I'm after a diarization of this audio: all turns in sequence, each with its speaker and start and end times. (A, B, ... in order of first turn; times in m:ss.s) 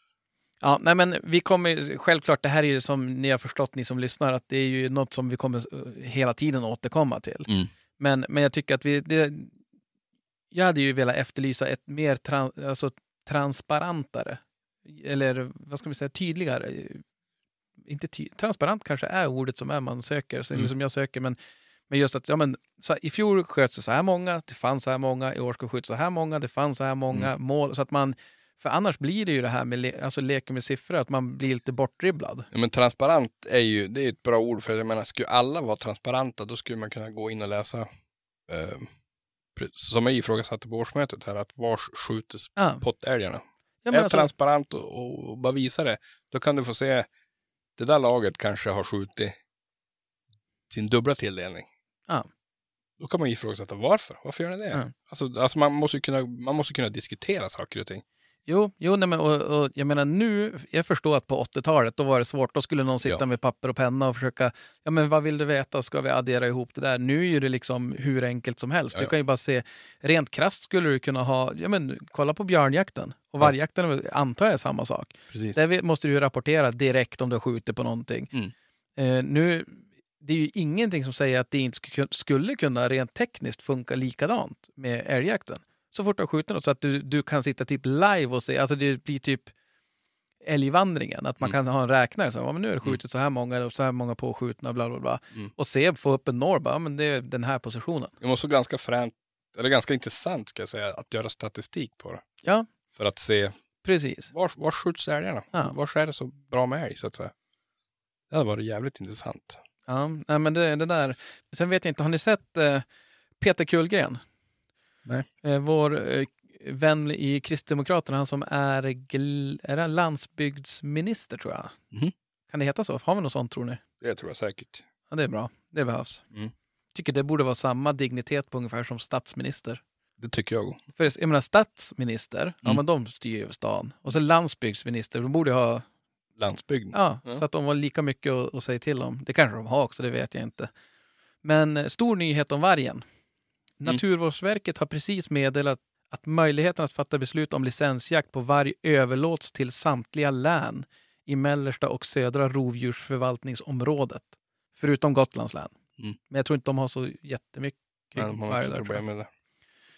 0:00.6-0:07.5 A
0:08.0-0:09.5 A
0:10.5-0:17.0 A
0:17.8-0:21.4 A
0:21.9-0:32.5 A
0:32.5-0:37.9 B
0:38.5-0:38.9 B
0:39.5-0:47.1 B
0:42.6-0:42.8 A
0:43.8-0:44.3 A
0:47.8-0:49.4 B
0:50.7-0:51.7 B
0:53.0-0:58.0 B
0:58.5-1:18.3 A
1:15.3-1:15.6 B
1:19.0-1:29.5 A
1:30.4-1:38.1 A
1:38.2-1:42.2 B
1:43.0-1:43.5 B
1:43.8-1:44.3 A
1:44.3-1:47.3 B
1:48.3-1:49.6 B
1:49.9-1:52.8 A
1:53.4-1:54.2 A
1:55.4-2:01.7 A
2:02.5-2:03.8 A
2:04.0-2:04.8 B
2:05.1-2:06.2 A
2:06.9-2:09.8 A
2:10.2-2:10.8 B
2:11.0-2:15.8 A
2:16.4-2:17.4 B
2:16.9-2:20.7 A
2:21.4-2:23.0 A
2:23.8-2:35.7 A
2:36.3-2:39.0 A
2:38.2-2:39.3 B